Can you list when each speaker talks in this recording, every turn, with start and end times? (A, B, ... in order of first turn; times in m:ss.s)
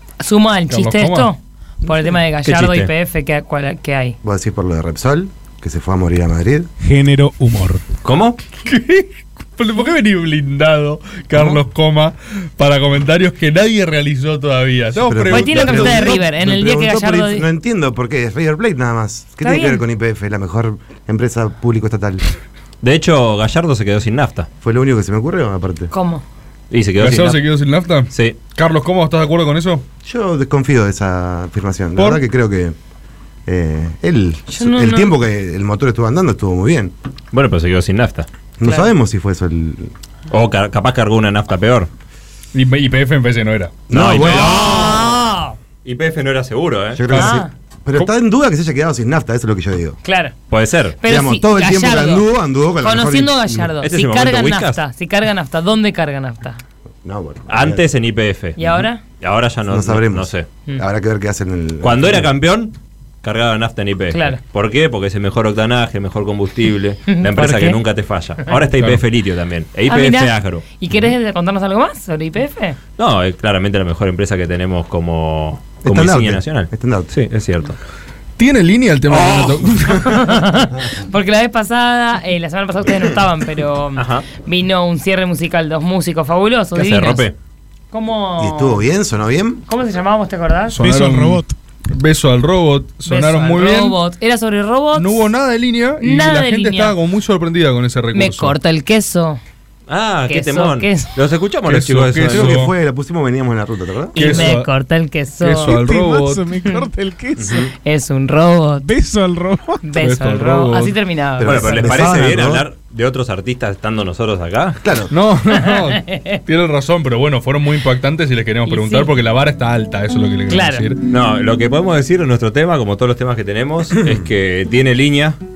0:00.2-0:04.2 A
0:00.7-0:01.3 B
0:02.4-0:02.9 C
0:04.2-0:06.7 D
0:06.8-0:07.8 E
0:08.0-0:08.4 C
0:08.6-0:16.2 B
0:14.9-0:22.2 D
0:15.3-0:17.4 A
0:19.4-0:19.8 A
0:22.8-0:24.5 C
0:24.6-0:25.9 D
0:25.9-0:26.2 A
0:26.7-0:27.4 C
0:27.0-0:29.8 B
0:28.1-0:28.4 C
0:30.0-0:32.7 D
0:32.0-0:32.2 B
0:33.4-0:36.9 D
0:34.5-0:35.1 A
0:37.3-0:38.3 C
0:38.6-0:39.9 D
0:40.3-0:41.9 C
0:42.5-0:44.6 B
0:43.9-0:45.0 D
0:43.9-0:45.1 C
0:44.2-0:45.6 A
0:45.8-0:47.3 C
0:46.9-0:50.0 D
0:47.1-0:47.5 A
0:50.0-0:50.3 A
0:50.5-0:51.0 C
0:51.0-0:52.2 A
0:51.0-0:53.7 D
0:52.8-0:56.6 A
0:53.8-0:54.8 C
0:57.0-0:57.9 D
0:57.5-1:00.4 C
0:58.6-0:59.0 A
0:59.7-1:02.3 D
1:01.8-1:10.6 C
1:04.1-1:04.4 A
1:07.1-1:07.8 A
1:09.9-1:12.8 A
1:13.0-1:17.8 C
1:15.8-1:17.1 D
1:18.4-1:20.2 B
1:19.9-1:27.3 A
1:24.0-1:24.2 C
1:26.7-1:27.3 C
1:27.9-1:28.8 A
1:28.4-1:29.6 D
1:29.7-1:30.8 A
1:30.7-1:34.0 B
1:30.8-1:31.5 E
1:33.0-1:35.2 A
1:34.9-1:38.6 B
1:36.0-1:36.9 A
1:38.1-1:39.4 A
1:39.9-1:42.6 C
1:40.3-1:41.1 A
1:41.7-1:42.7 B
1:42.3-1:44.5 D
1:44.1-1:44.7 B
1:44.1-1:45.8 A
1:45.4-1:46.4 B
1:45.6-1:47.7 E
1:47.4-1:47.6 C
1:47.8-1:48.8 A
1:48.8-1:49.8 E
1:49.8-1:52.0 A
1:50.0-1:50.9 B
1:51.4-1:54.8 C
1:51.4-1:52.6 D
1:54.8-1:55.1 D
1:55.1-2:01.0 B
1:55.6-1:56.4 A
1:58.6-1:59.1 A
2:00.5-2:00.9 A
2:01.1-2:05.4 C
2:03.9-2:04.3 D